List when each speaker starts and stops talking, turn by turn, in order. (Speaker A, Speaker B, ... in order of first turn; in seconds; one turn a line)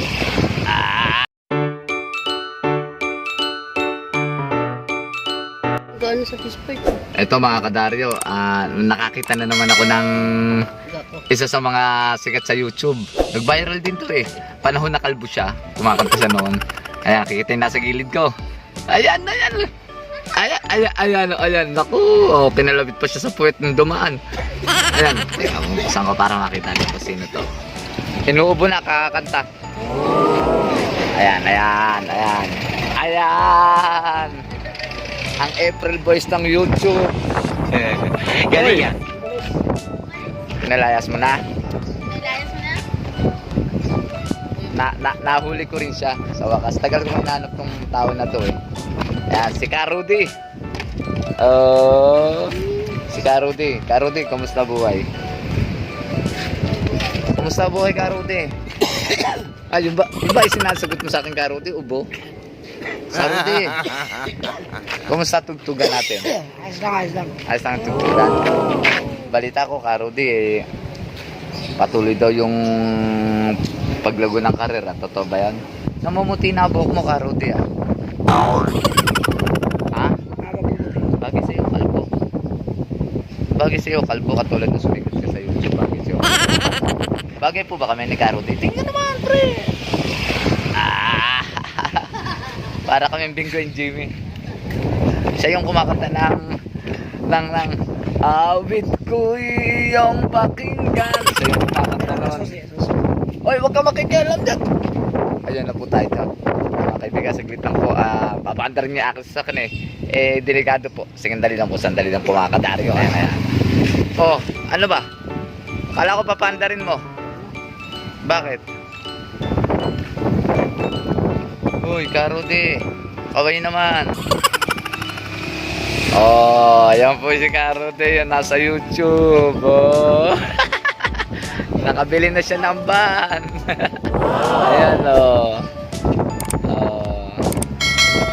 Speaker A: 0.7-1.2
Speaker B: 5.9-7.0
Speaker A: 7.2-18.3
Speaker A: 18.9-19.7
Speaker A: 20.4-27.5
Speaker A: 28.3-29.4
Speaker A: 30.9-34.4
Speaker A: 35.4-37.1
Speaker A: 37.7-39.0
Speaker A: 40.6-41.4
Speaker B: 42.2-42.8
Speaker A: 44.6-48.6
Speaker A: 49.3-50.3
Speaker A: 51.4-55.0
Speaker A: 57.1-58.5
Speaker A: 59.1-62.1
Speaker A: 63.1-64.2
Speaker A: 65.0-66.4
Speaker B: 66.5-67.3
Speaker A: 67.4-70.6
Speaker A: 71.8-77.6
Speaker A: 79.9-80.3
Speaker B: 80.5-81.1
Speaker A: 81.0-82.1
Speaker A: 83.6-86.6
Speaker A: 87.4-89.7
Speaker A: 90.8-94.1
Speaker A: 95.4-96.4
Speaker A: 97.3-102.6
Speaker B: 102.5-103.0
Speaker A: 103.5-104.7
Speaker A: 105.5-113.5
Speaker A: 114.2-115.0
Speaker A: 115.9-117.0
Speaker A: 118.3-118.6
Speaker A: 121.8-122.8
Speaker A: 123.3-124.2
Speaker A: 126.2-134.1
Speaker A: 134.6-135.6
Speaker A: 136.7-137.4